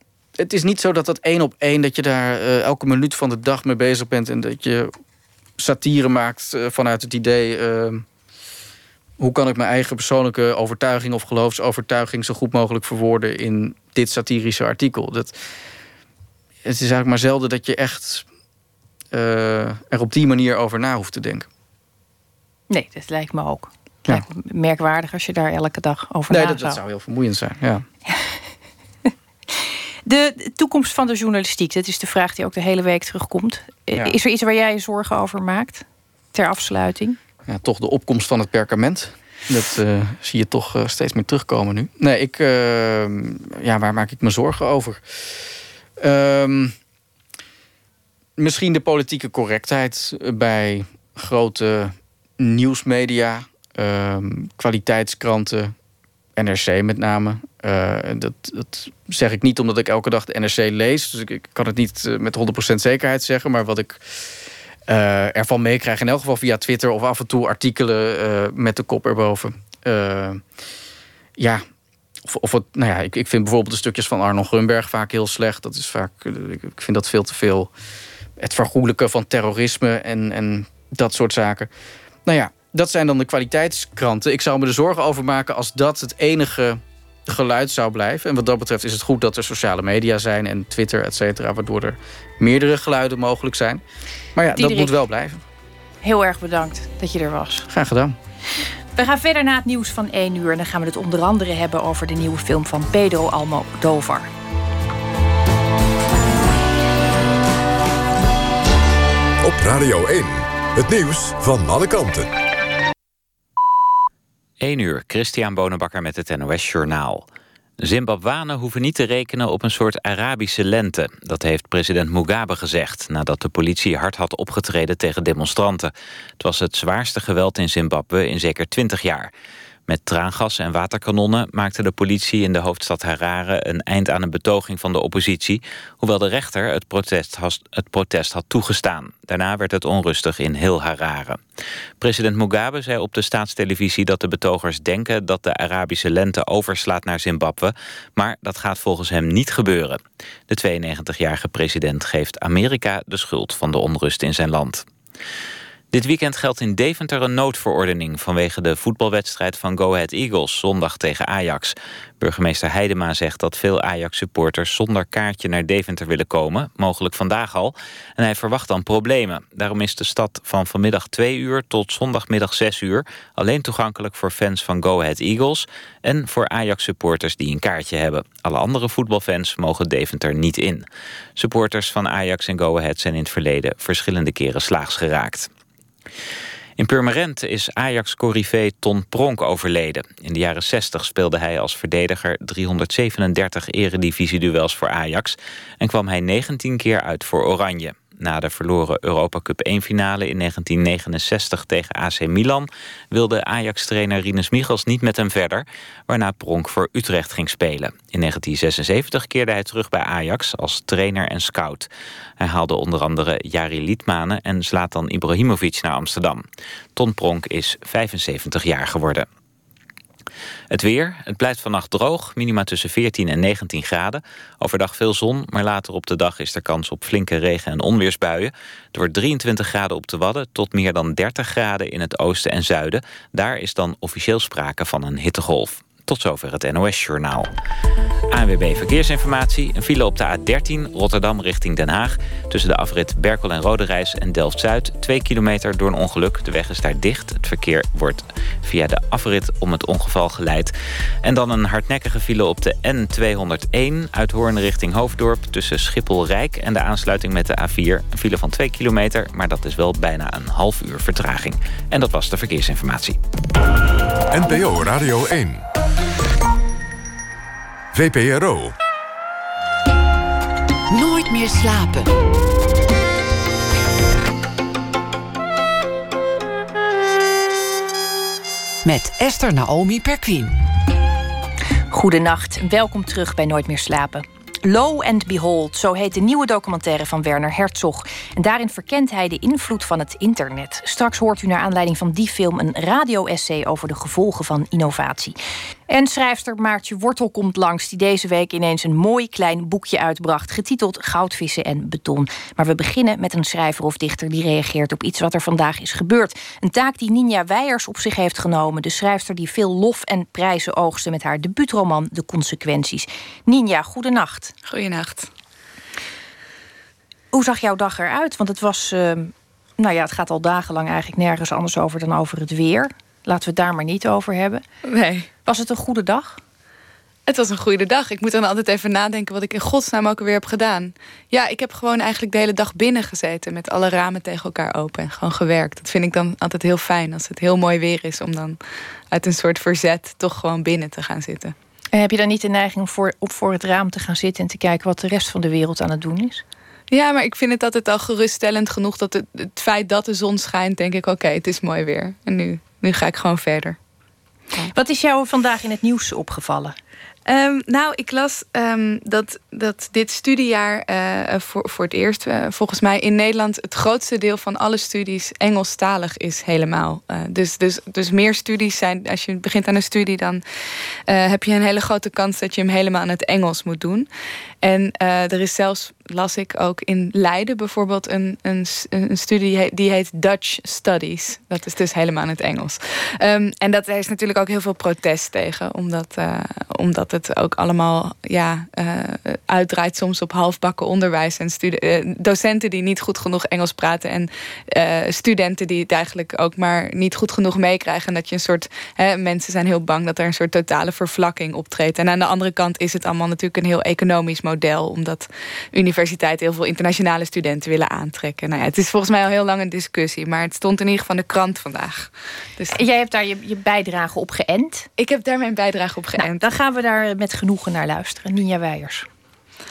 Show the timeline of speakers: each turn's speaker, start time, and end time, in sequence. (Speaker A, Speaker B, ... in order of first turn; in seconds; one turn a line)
Speaker A: 0.4-4.9
Speaker A: 5.6-8.1
Speaker A: 9.2-15.3
Speaker A: 16.6-18.2
Speaker A: 19.1-21.5
Speaker B: 22.7-26.8
Speaker A: 26.3-27.8
Speaker B: 28.1-28.4
Speaker B: 29.0-37.2
Speaker A: 37.5-45.4
Speaker A: 46.0-46.7
Speaker A: 48.4-55.7
Speaker A: 56.4-64.0
Speaker A: 64.9-70.4
Speaker A: 71.4-71.6
Speaker A: 72.2-77.7
Speaker A: 78.4-81.7
Speaker A: 82.2-93.8
Speaker A: 94.3-95.4
Speaker B: 94.5-94.9
Speaker B: 96.0-97.7
Speaker A: 97.7-98.2
Speaker B: 99.0-104.3
Speaker C: 109.4-112.3
Speaker D: 114.6-117.3
Speaker D: 117.8-129.3
Speaker D: 129.9-141.4
Speaker D: 142.0-154.9
Speaker D: 155.9-180.8
Speaker D: 181.4-185.5
Speaker D: 186.8-211.9
Speaker D: 212.4-216.4
Speaker D: 216.9-219.3
Speaker D: 220.7-237.5
Speaker D: 238.3-250.7
Speaker D: 251.2-263.2
Speaker C: 264.3-265.6
Speaker C: 267.9-268.7
Speaker E: 270.9-272.1
Speaker E: 278.8-280.6
Speaker B: 281.9-295.4
Speaker B: 295.9-314.5
Speaker F: 314.7-315.3
Speaker B: 317.3-324.6
Speaker F: 324.8-325.3
Speaker B: 325.4-326.4
Speaker F: 327.2-338.6
Speaker F: 339.1-341.5
Speaker B: 341.9-346.4
Speaker F: 346.9-353.8
Speaker B: 354.7-356.7
Speaker F: 357.2-370.4
Speaker F: 371.1-374.1
Speaker F: 374.6-412.8
Speaker B: 412.7-414.9
Speaker F: 415.0-416.5
Speaker B: 416.2-419.1